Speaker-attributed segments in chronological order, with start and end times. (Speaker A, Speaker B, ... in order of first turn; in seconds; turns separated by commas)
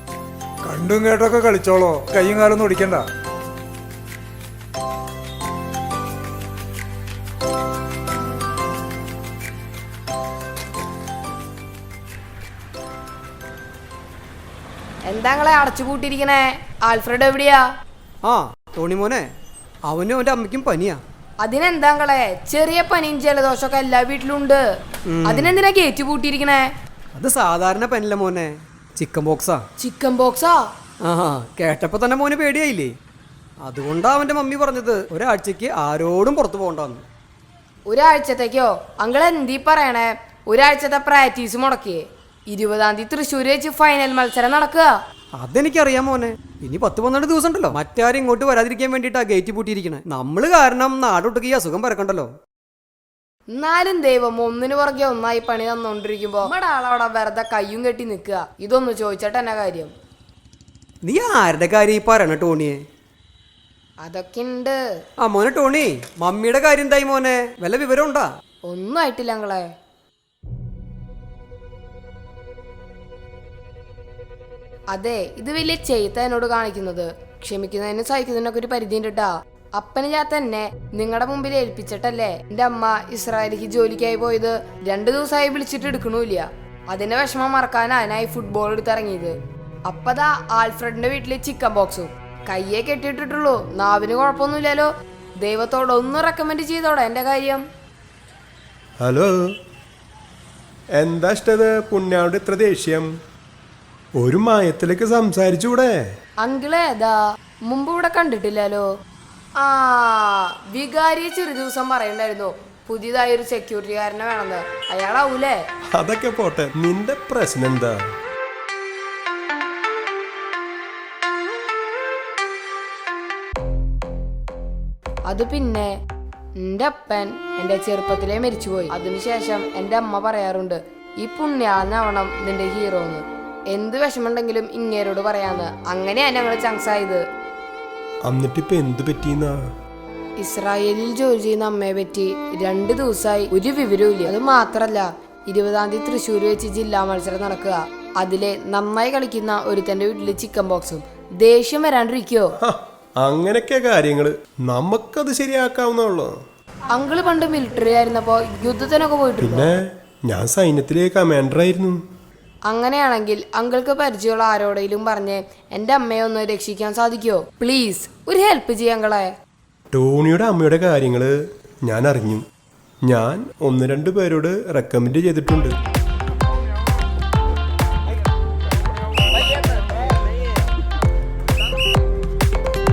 Speaker A: 0.7-3.0, Speaker B: 15.1-17.6, Speaker C: 18.2-19.2, Speaker C: 19.9-21.0, Speaker B: 21.4-24.6, Speaker C: 25.1-25.6, Speaker B: 25.2-26.7, Speaker C: 27.1-29.6, Speaker B: 29.8-30.6, Speaker C: 31.1-32.9, Speaker C: 33.6-37.0, Speaker B: 37.9-44.9, Speaker C: 45.4-52.3, Speaker B: 53.5-59.9, Speaker C: 61.0-62.8, Speaker B: 64.0-64.8, Speaker C: 65.2-68.3, Speaker B: 68.7-69.7, Speaker B: 74.9-89.3, Speaker B: 89.9-94.9, Speaker B: 95.4-97.6, Speaker D: 99.0-99.3, Speaker D: 101.0-103.1, Speaker D: 104.2-106.0, Speaker B: 106.4-107.2, Speaker B: 107.7-108.9, Speaker B: 109.6-115.6, Speaker D: 116.0-118.0, Speaker B: 125.3-125.9, Speaker B: 126.6-137.2, Speaker D: 138.2-139.6, Speaker B: 140.4-152.5, Speaker D: 152.6-156.3, Speaker B: 156.9-159.7, Speaker D: 159.4-162.0, Speaker B: 162.7-169.3, Speaker D: 169.9-171.3, Speaker D: 171.8-172.4, Speaker D: 173.1-175.7